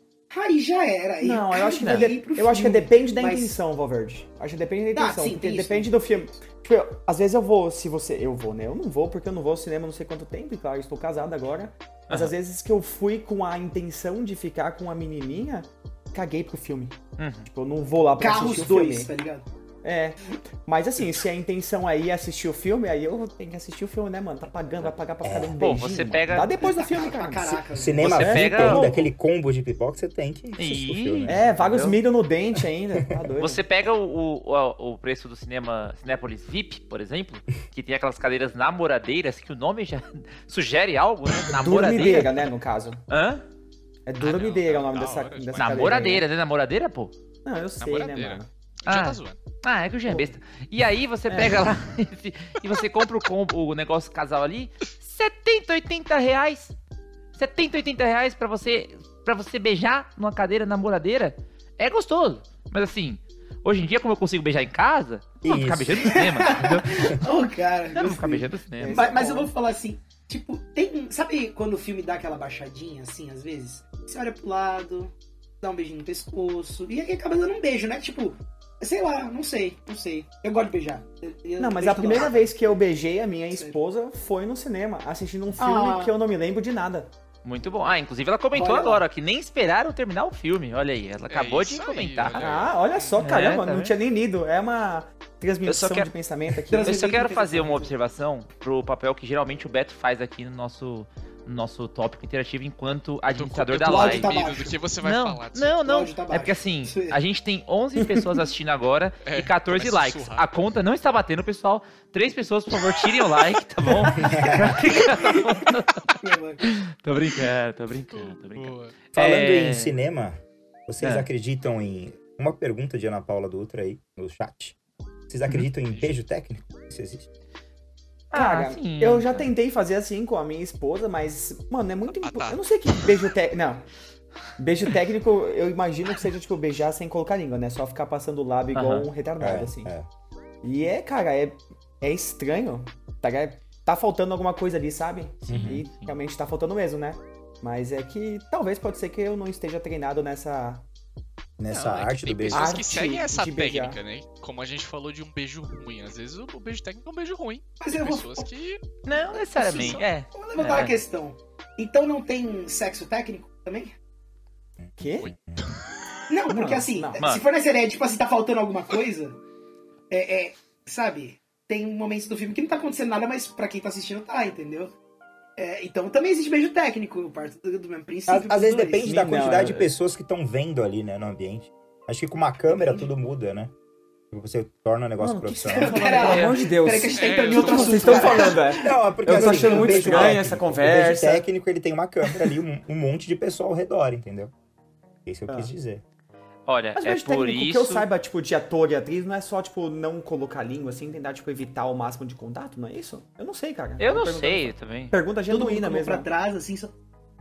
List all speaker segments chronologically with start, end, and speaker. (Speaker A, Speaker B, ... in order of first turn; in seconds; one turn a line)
Speaker A: 0.3-3.6
Speaker B: 1.2-19.1
Speaker C: 1.7-2.1
Speaker A: 4.9-5.9
Speaker C: 17.2-17.5
Speaker A: 18.2-19.4
Speaker B: 19.8-29.1
Speaker D: 25.2-25.5
Speaker C: 25.6-26.5
Speaker A: 26.6-28.1
Speaker D: 27.5-31.5
Speaker C: 28.0-28.9
Speaker C: 30.6-32.0
Speaker B: 31.2-33.6
Speaker C: 33.4-42.4
Speaker B: 41.6-43.0
Speaker C: 43.1-43.4
Speaker B: 44.1-46.3
Speaker E: 44.2-45.9
Speaker C: 45.6-47.1
Speaker B: 47.4-48.5
Speaker E: 47.8-49.4
Speaker C: 48.9-56.7
Speaker B: 50.1-50.3
Speaker B: 51.3-51.7
Speaker C: 57.3-67.1
Speaker D: 65.4-67.0
Speaker A: 66.1-82.5
Speaker C: 67.9-69.1
Speaker B: 68.8-69.5
Speaker B: 81.6-87.1
Speaker A: 85.6-86.1
Speaker C: 87.4-92.4
Speaker A: 88.5-89.0
Speaker E: 91.3-93.2
Speaker B: 92.3-97.0
Speaker C: 93.2-93.9
Speaker C: 95.6-104.4
Speaker A: 96.7-97.9
Speaker E: 103.3-105.8
Speaker A: 103.8-104.7
Speaker C: 105.0-119.9
Speaker A: 105.8-107.2
Speaker B: 108.0-108.3
Speaker E: 109.2-110.4
Speaker D: 114.1-114.8
Speaker A: 114.6-116.7
Speaker E: 118.1-119.0
Speaker D: 119.1-124.7
Speaker C: 121.0-121.3
Speaker D: 125.3-127.3
Speaker C: 128.3-129.5
Speaker B: 128.3-133.9
Speaker E: 132.1-133.0
Speaker B: 134.6-139.9
Speaker C: 138.7-139.1
Speaker D: 139.4-140.1
Speaker B: 140.6-150.8
Speaker C: 145.4-146.2
Speaker D: 145.5-145.8
Speaker D: 151.6-152.8
Speaker E: 151.7-158.8
Speaker B: 152.5-154.0
Speaker A: 157.8-158.5
Speaker C: 159.0-161.0
Speaker A: 159.6-163.9
Speaker E: 159.7-160.0
Speaker B: 165.0-165.3
Speaker E: 165.2-165.7
Speaker A: 166.3-169.4
Speaker B: 166.5-167.2
Speaker C: 167.2-167.4
Speaker A: 170.1-174.9
Speaker A: 175.6-179.2
Speaker D: 178.3-183.7
Speaker B: 179.0-179.9
Speaker A: 182.7-183.1
Speaker D: 184.3-186.2
Speaker B: 185.2-191.4
Speaker A: 185.7-190.4
Speaker C: 186.2-186.6
Speaker E: 187.1-188.6
Speaker D: 188.7-194.5
Speaker B: 192.3-192.5
Speaker D: 195.2-196.0
Speaker C: 196.7-198.1
Speaker B: 196.9-206.3
Speaker C: 204.0-205.1
Speaker A: 205.5-206.9